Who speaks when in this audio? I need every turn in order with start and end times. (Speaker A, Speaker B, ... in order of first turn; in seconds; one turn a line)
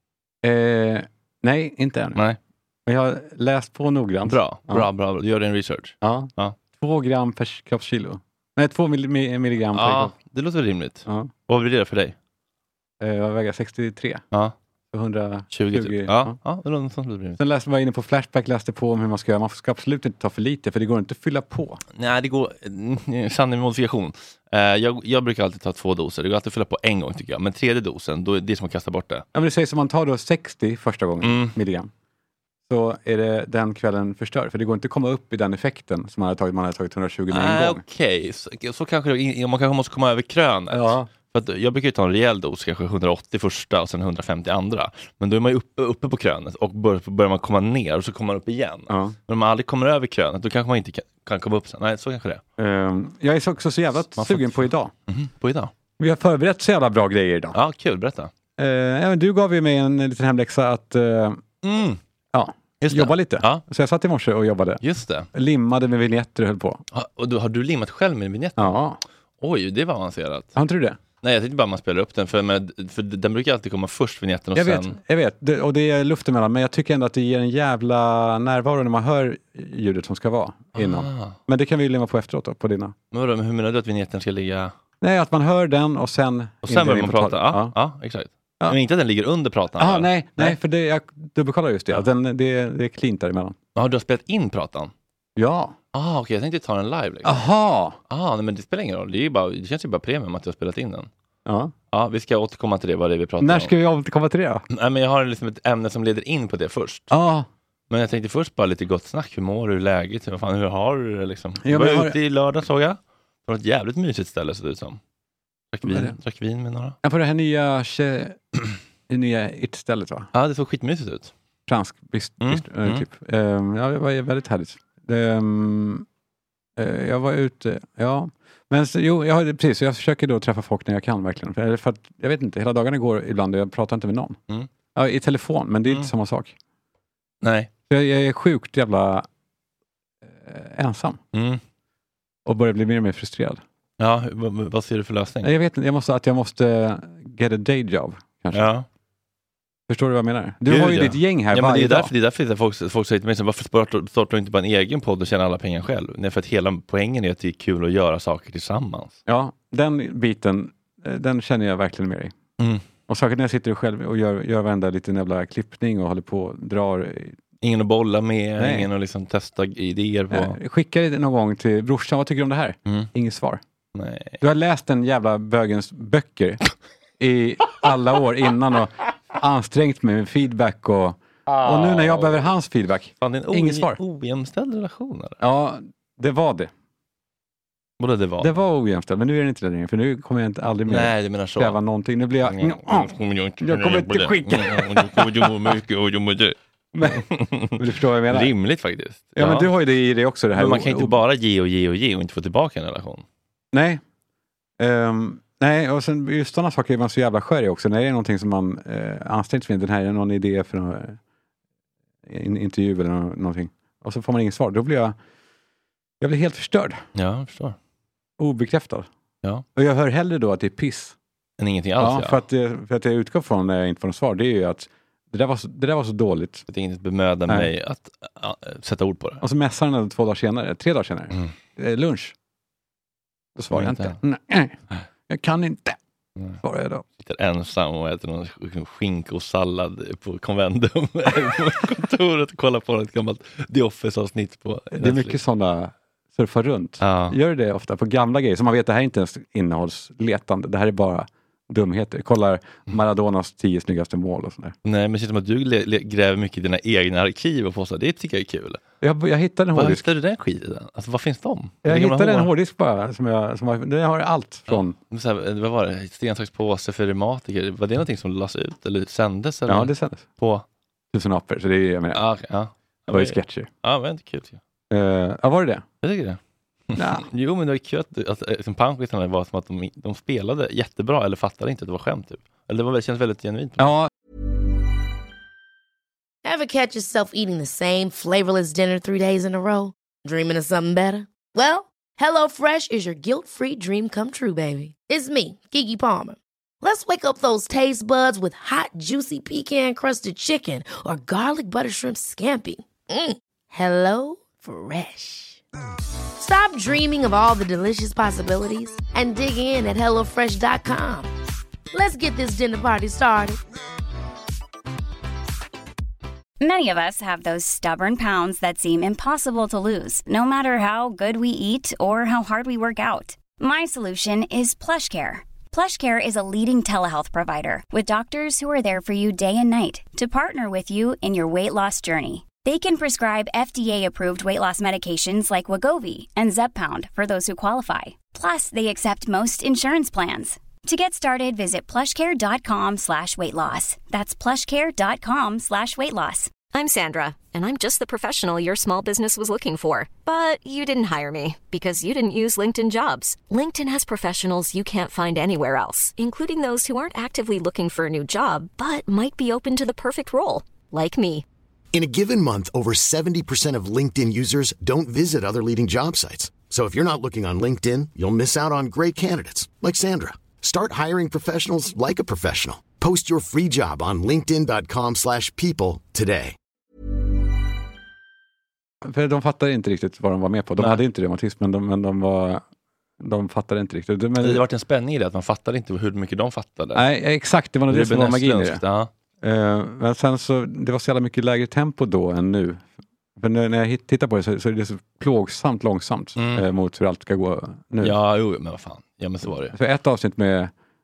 Speaker A: 0.4-2.2
Speaker A: 2.9-4.8
Speaker B: 4.3-6.5
Speaker A: 6.0-10.1
Speaker B: 9.7-12.2
Speaker A: 13.0-14.2
Speaker A: 14.9-16.4
Speaker B: 15.5-17.4
Speaker A: 17.4-21.8
Speaker B: 21.9-29.2
Speaker A: 29.3-31.9
Speaker B: 31.2-31.5
Speaker A: 32.7-37.8
Speaker B: 37.3-52.4
Speaker A: 40.7-41.1
Speaker A: 48.9-49.1
Speaker A: 52.6-54.9
Speaker B: 54.1-55.7
Speaker A: 56.0-57.6
Speaker B: 57.5-58.3
Speaker A: 58.6-61.4
Speaker B: 61.6-62.0
Speaker A: 62.3-64.8
Speaker B: 62.8-63.6
Speaker B: 64.8-65.3
Speaker A: 65.3-66.8
Speaker B: 66.9-68.8
Speaker A: 68.6-69.0
Speaker B: 69.4-70.5
Speaker A: 70.5-71.0
Speaker B: 71.2-75.0
Speaker A: 74.5-82.9
Speaker B: 80.7-81.4
Speaker B: 83.1-84.7
Speaker A: 85.0-87.7
Speaker B: 86.6-90.6
Speaker A: 89.8-93.5
Speaker B: 93.7-94.9
Speaker A: 95.3-95.8
Speaker B: 95.9-97.4
Speaker A: 97.2-98.0
Speaker B: 98.1-101.1
Speaker A: 101.5-101.7
Speaker B: 101.9-103.7
Speaker A: 103.4-104.6
Speaker B: 104.7-107.1
Speaker A: 107.1-107.5
Speaker B: 107.9-115.0
Speaker A: 111.6-112.2
Speaker B: 115.7-117.0
Speaker A: 115.8-116.1
Speaker A: 117.0-118.4
Speaker A: 119.1-120.3
Speaker B: 120.3-121.3
Speaker A: 121.7-126.0
Speaker B: 122.4-123.0
Speaker A: 126.8-134.4
Speaker A: 134.9-136.5
Speaker B: 137.4-137.7
Speaker A: 137.9-139.2
Speaker A: 140.3-141.2
Speaker B: 141.3-141.6
Speaker A: 142.4-143.6
Speaker B: 144.0-145.5
Speaker A: 145.4-148.7
Speaker B: 148.5-148.8
Speaker A: 149.9-152.1
Speaker B: 150.7-159.2
Speaker A: 159.2-162.3
Speaker A: 163.1-167.3
Speaker B: 167.6-170.6
Speaker A: 168.6-168.9
Speaker A: 170.3-173.6
Speaker B: 173.9-174.4
Speaker A: 174.4-176.6
Speaker A: 177.2-184.0
Speaker B: 181.5-182.4
Speaker B: 183.2-185.4
Speaker A: 185.4-186.7
Speaker B: 188.0-188.5
Speaker A: 188.4-195.7
Speaker B: 190.9-191.8
Speaker B: 192.4-199.7
Speaker A: 196.9-198.5
Speaker A: 199.3-201.2
Speaker B: 200.5-203.2
Speaker A: 203.7-204.0
Speaker A: 204.8-211.2
Speaker A: 212.2-215.2
Speaker A: 216.2-217.0
Speaker B: 217.1-217.8
Speaker A: 218.4-219.1
Speaker A: 219.7-221.2
Speaker B: 221.6-222.4
Speaker A: 222.0-226.6
Speaker B: 226.7-229.4
Speaker A: 229.4-232.3
Speaker A: 233.6-236.0
Speaker B: 233.7-234.2
Speaker A: 236.6-237.0
Speaker B: 237.2-245.4
Speaker A: 244.9-254.7
Speaker B: 247.0-247.3
Speaker B: 254.8-258.8
Speaker A: 259.0-260.1
Speaker B: 259.7-262.5
Speaker A: 261.8-264.9
Speaker B: 264.7-270.6
Speaker A: 269.7-270.2
Speaker A: 271.1-272.2
Speaker B: 272.1-274.6
Speaker A: 273.1-273.7
Speaker A: 274.9-275.8
Speaker B: 276.0-283.9
Speaker A: 276.9-277.2
Speaker A: 283.8-284.1
Speaker C: 286.4-305.6
Speaker C: 306.4-311.3
Speaker C: 311.9-313.6
Speaker D: 316.6-346.5
Speaker E: 346.7-361.4
Speaker F: 361.9-376.6
Speaker A: 379.0-382.6
Speaker A: 383.2-384.6
Speaker B: 384.4-387.0
Speaker A: 386.9-388.8
Speaker B: 387.9-389.1
Speaker A: 389.4-392.8
Speaker A: 393.4-398.1
Speaker B: 396.4-396.6
Speaker B: 398.0-399.8
Speaker A: 399.7-400.7